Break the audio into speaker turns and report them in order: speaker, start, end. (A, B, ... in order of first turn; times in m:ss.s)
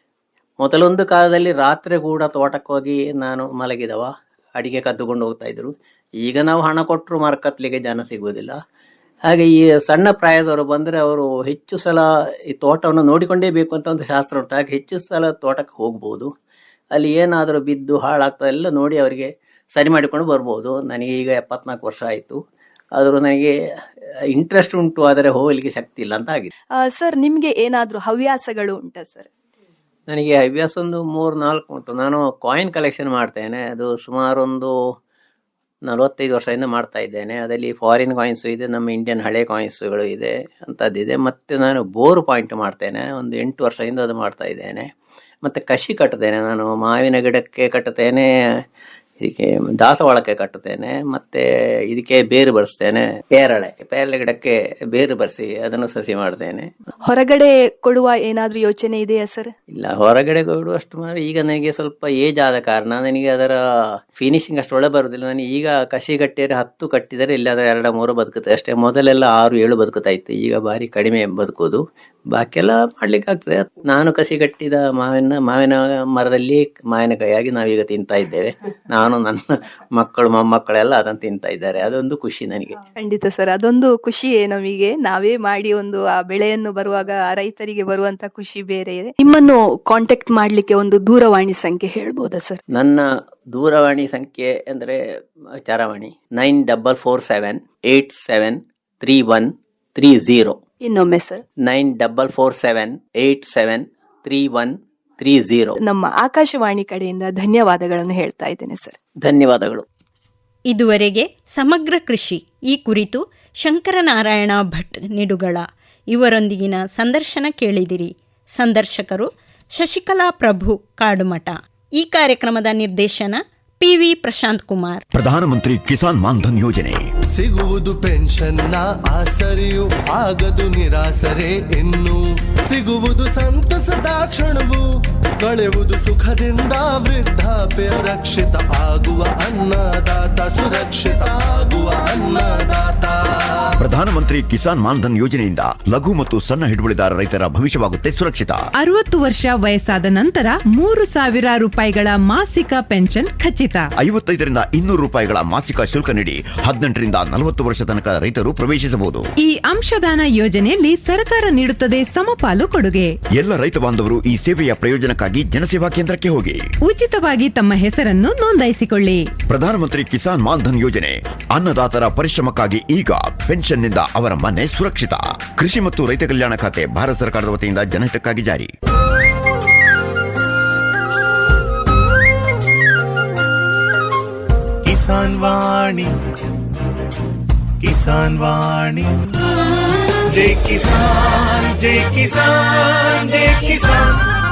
0:00.6-0:08.6 A
0:09.3-0:16.3 A
0:16.9-0:22.4 A
0:23.0-0:23.5 A
0:24.3-0:26.5 A
0:26.8-0:29.3 B
0:30.1-0:34.7 A
0:35.8-0:44.9 A
0:45.4-0:48.3 A
0:49.2-0:56.7 A
0:57.0-0:59.5 B
0:59.7-1:03.6 A
1:04.1-1:22.8 A
1:23.0-1:32.6 B
1:32.7-1:35.0 A
1:35.6-1:40.6 A
1:40.8-1:41.4 B
1:41.6-1:45.8 A
1:45.8-1:49.0 B
1:49.2-1:49.8 A
1:50.7-2:05.0 C
2:05.1-2:07.0 D
2:07.3-2:14.8 E
2:15.4-2:23.1 E
2:23.8-2:28.6 D
2:28.8-2:33.9 F
2:34.0-2:39.2 D
2:39.4-2:43.1 F
2:43.4-2:46.6 D
2:46.8-2:49.3 F
2:49.5-2:58.7 D
3:04.8-3:06.1 G
3:07.8-3:09.2 G
3:10.2-3:14.2 G